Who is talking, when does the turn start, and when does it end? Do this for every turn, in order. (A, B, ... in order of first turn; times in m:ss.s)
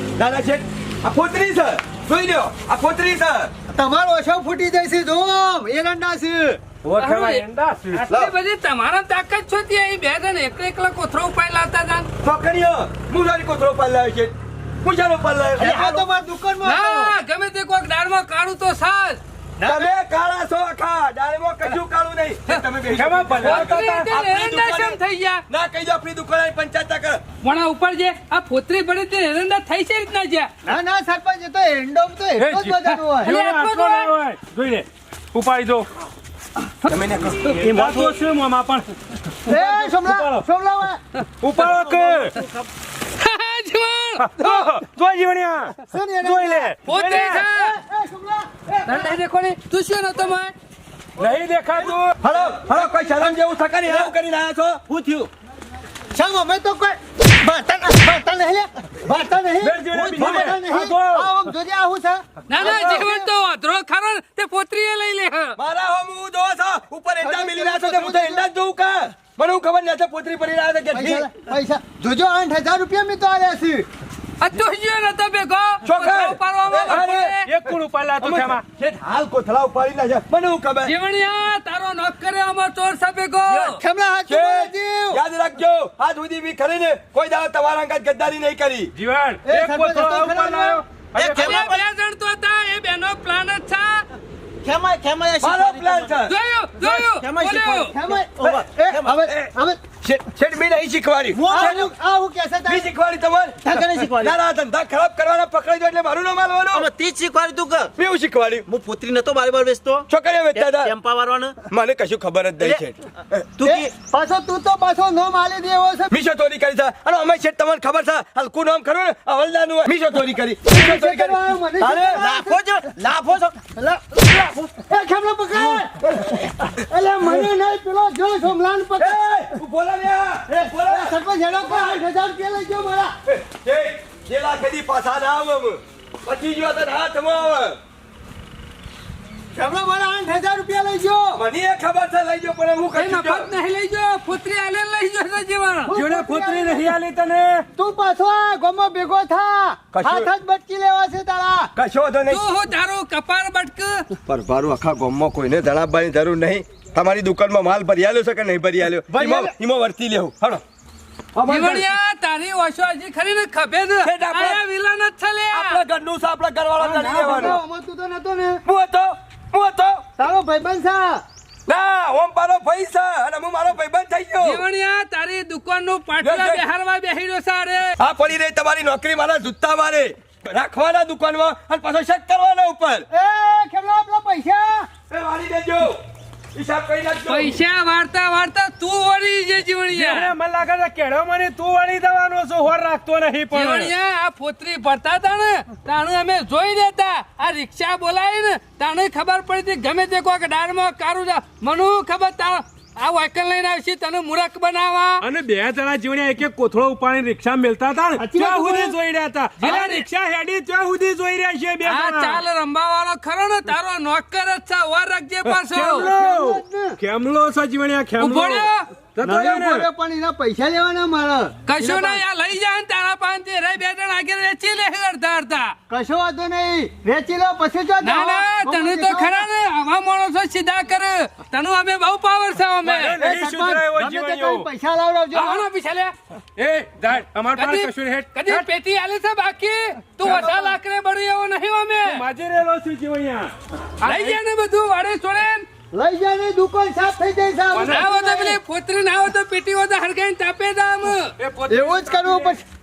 0:00.2-0:03.5 A
0:03.7-0:06.6 B
0:06.8-0:08.0 C
0:07.0-0:12.1 D
0:12.2-0:15.7 A
0:15.6-0:17.1 B
0:15.6-0:16.0 E
0:16.6-0:19.2 D
0:19.6-0:19.9 B
0:19.6-0:27.2 A
0:22.9-0:24.1 C
0:23.4-0:25.4 D
0:27.4-0:30.5 D
0:30.6-0:33.4 B
0:32.4-0:35.9 C
0:33.2-0:34.1 D
0:36.9-0:37.5 A
0:37.4-0:40.4 C
0:37.7-0:38.2 E
0:39.5-0:41.0 B
0:41.4-0:42.4 C
0:41.6-0:42.7 E
0:43.2-0:44.7 D
0:44.2-0:47.4 C
0:45.9-0:49.2 B
0:46.8-0:47.8 D
0:48.9-0:50.6 D
0:51.2-0:52.2 C
0:52.1-0:54.8 A
0:52.4-0:53.4 B
0:54.9-0:55.3 E
0:56.1-1:03.3 B
0:59.6-1:01.5 C
0:59.9-1:00.4 E
1:02.5-1:05.6 D
1:02.6-1:03.0 A
1:05.6-1:11.3 A
1:07.2-1:08.5 B
1:10.9-1:13.9 B
1:14.4-1:17.5 D
1:15.8-1:17.7 A
1:16.9-1:18.6 C
1:18.2-1:20.9 A
1:20.8-1:23.8 D
1:23.5-1:25.2 B
1:24.3-1:28.9 A
1:29.0-1:31.8 C
1:29.4-1:30.9 B
1:31.2-1:34.1 D
1:31.2-1:31.8 E
1:34.6-1:36.2 E
1:35.4-1:36.3 A
1:36.3-1:37.9 D
1:36.8-1:39.2 E
1:37.9-1:39.8 B
1:40.0-1:41.8 A
1:41.3-1:41.9 E
1:41.5-1:42.9 B
1:42.6-1:46.9 A
1:43.6-1:44.4 E
1:46.7-1:47.9 E
1:48.0-1:48.6 A
1:48.7-1:51.6 E
1:50.1-1:50.9 A
1:51.7-1:53.5 A
1:53.6-1:53.9 E
1:53.6-1:56.1 B
1:56.1-2:02.2 A
2:00.7-2:02.8 B
2:02.1-2:03.6 E
2:03.8-2:09.2 B
2:05.7-2:06.6 A
2:09.0-2:12.0 A
2:10.5-2:13.2 B
2:13.3-2:17.8 A
2:19.6-2:21.4 B
2:21.3-2:23.5 A
2:23.0-2:25.9 D
2:25.9-2:26.9 B
2:25.9-2:27.7 C
2:27.8-2:31.7 B
2:29.9-2:30.3 A
2:31.8-2:32.4 A
2:32.3-2:34.1 D
2:34.3-2:40.6 A
2:39.1-2:39.5 B
2:41.4-2:41.9 A
2:41.5-2:45.8 D
2:44.0-2:44.6 A
2:45.5-2:47.6 A
2:46.8-2:48.6 B
2:48.6-2:50.0 A
2:50.2-2:51.2 B
2:51.7-2:54.6 A
2:54.4-2:58.0 D
2:56.2-2:56.6 A
2:58.0-3:03.1 A
3:03.1-3:04.9 B
3:05.1-3:06.0 A
3:06.6-3:07.6 A
3:07.3-3:10.3 D
3:09.9-3:13.9 C
3:13.5-3:25.2 D
3:25.2-3:32.4 C
3:28.2-3:29.0 B
3:29.6-3:30.0 B
3:29.6-3:30.0 D
3:31.8-3:36.1 D
3:35.4-3:39.9 C
3:36.0-3:37.0 B
3:38.2-3:38.9 D
3:39.2-3:42.2 B
3:41.7-3:45.8 D
3:45.9-3:49.5 B
3:48.0-3:53.2 D
3:52.8-3:54.7 C
3:53.2-3:55.7 B
3:55.3-3:56.1 D
3:56.6-3:58.6 C
3:57.5-4:02.2 D
4:00.2-4:00.8 B
4:02.0-4:03.5 C
4:04.0-4:05.7 D
4:05.9-4:08.6 B
4:07.7-4:08.2 C
4:07.9-4:11.3 D
4:11.4-4:12.6 C
4:11.7-4:12.6 B